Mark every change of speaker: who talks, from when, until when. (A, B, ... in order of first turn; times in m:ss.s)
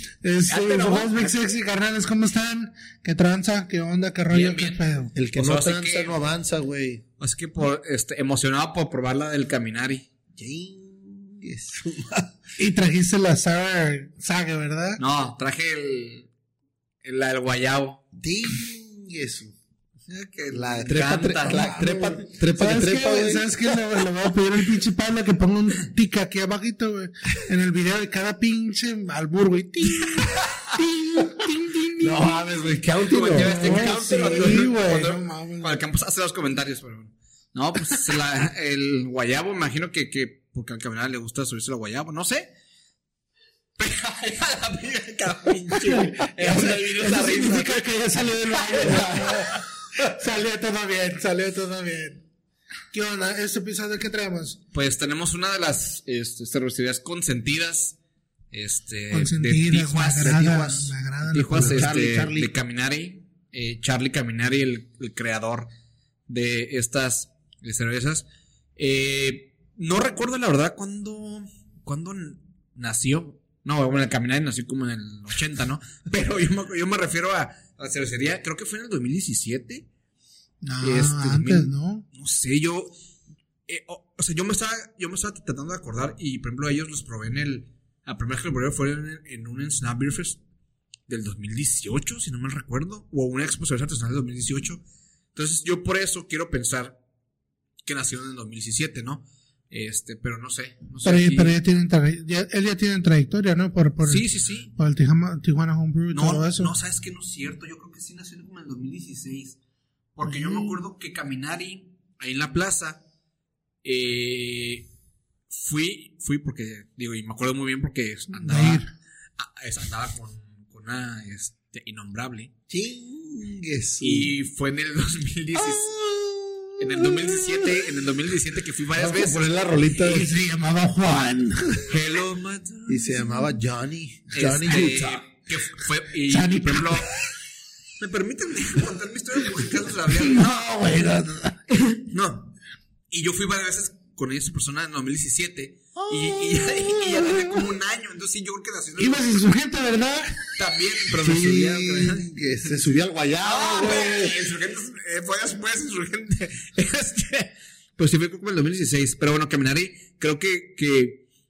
0:00.2-0:05.1 A
0:00.5-0:01.3 B
0:04.3-0:04.8 B
0:05.2-0:07.0 C
0:05.3-0:06.1 B
0:07.2-0:10.1 B
0:10.4-0:12.4 C
0:12.6-0:15.0 A
0:15.0-0:16.3 B
0:17.0-0:18.0 B
0:18.2-0:19.6 C
0:20.1-0:21.6 B
0:20.5-0:23.5 C
0:21.5-0:32.4 A
0:30.0-0:30.6 B
0:32.0-0:34.7 C
0:33.0-0:42.5 B
0:33.1-0:35.8 A
0:43.8-0:47.9 B
0:45.9-0:52.2 A
0:48.7-0:49.6 B
0:48.8-0:49.5 C
0:52.9-0:54.6 A
0:54.7-0:58.0 B
0:58.5-1:00.4 B
0:59.1-1:01.9 A
1:00.2-1:00.9 C
1:01.3-1:05.7 B
1:01.5-1:02.5 C
1:06.3-1:08.2 B
1:08.8-1:19.9 B
1:20.6-1:22.0 A
1:20.8-1:22.9 B
1:23.7-1:30.4 B
1:31.1-1:34.8 B
1:35.4-1:37.0 B
1:37.8-1:41.6 B
1:41.0-1:46.7 A
1:44.0-1:44.7 B
1:46.1-1:49.6 B
1:50.2-1:53.0 B
1:50.2-1:50.8 A
1:53.8-1:54.9 B
1:55.5-1:58.9 B
1:58.3-1:58.9 A
1:59.4-2:02.5 B
2:02.7-2:04.3 C
2:04.0-2:06.0 B
2:05.6-2:07.8 C
2:06.8-2:10.2 B
2:09.0-2:10.3 C
2:10.0-2:12.0 A
2:11.9-2:13.0 B
2:12.9-2:15.2 C
2:14.3-2:17.1 B
2:16.3-2:17.1 A
2:18.0-2:20.7 B
2:20.1-2:21.8 A
2:22.0-2:22.5 B
2:23.1-2:29.3 B
2:26.0-2:27.5 C
2:29.0-2:30.5 A
2:30.6-2:41.2 B
2:31.1-2:34.4 C